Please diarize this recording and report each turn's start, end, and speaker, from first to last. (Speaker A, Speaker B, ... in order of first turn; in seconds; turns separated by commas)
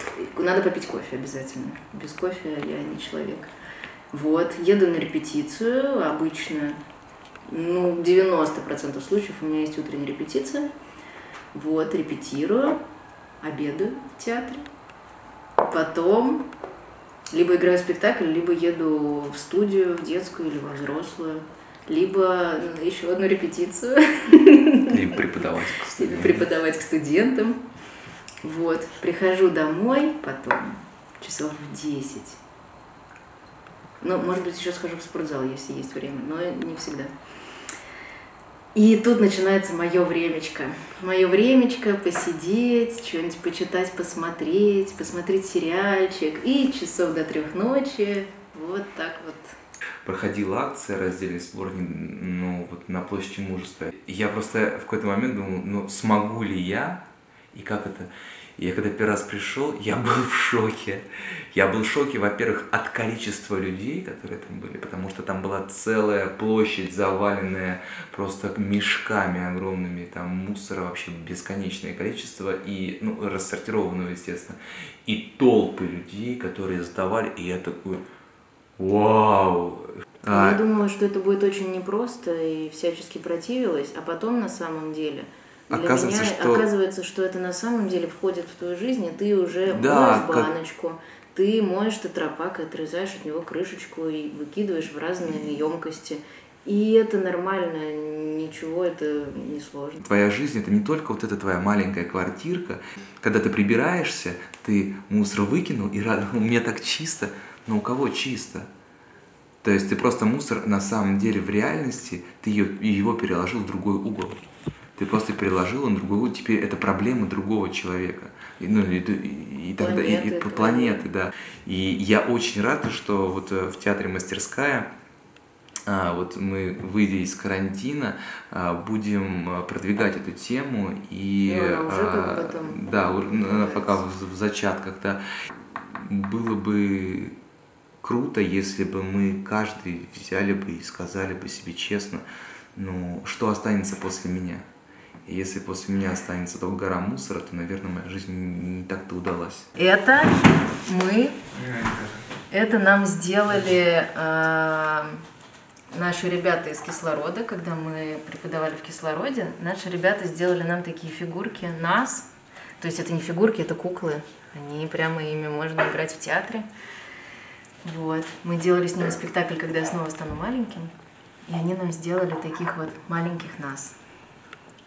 Speaker A: 0.1-3.5, Speaker A: 4.1-6.8, Speaker A: 7.5-10.7, Speaker A: 11.5-12.8, Speaker A: 13.4-14.6, Speaker A: 15.7-16.5, Speaker A: 17.3-25.0, Speaker B: 24.9-26.5, Speaker A: 25.9-27.6, Speaker A: 28.4-32.4, Speaker A: 34.0-37.1, Speaker A: 38.7-49.5, Speaker B: 50.0-57.0, Speaker B: 57.5-78.0, Speaker B: 78.8-80.6, Speaker A: 80.3-100.0, Speaker B: 85.7-86.6, Speaker B: 89.7-90.5, Speaker B: 100.0-108.7, Speaker B: 109.6-114.4, Speaker B: 115.0-124.9, Speaker A: 119.8-121.1, Speaker B: 125.9-135.2, Speaker A: 131.5-134.0, Speaker B: 135.8-137.4, Speaker B: 138.0-142.2, Speaker B: 142.8-144.6, Speaker B: 145.2-149.7, Speaker A: 149.8-151.4, Speaker B: 151.5-152.2, Speaker A: 152.5-155.2, Speaker A: 155.9-162.3, Speaker A: 162.8-166.7, Speaker A: 167.8-170.9, Speaker A: 171.5-174.0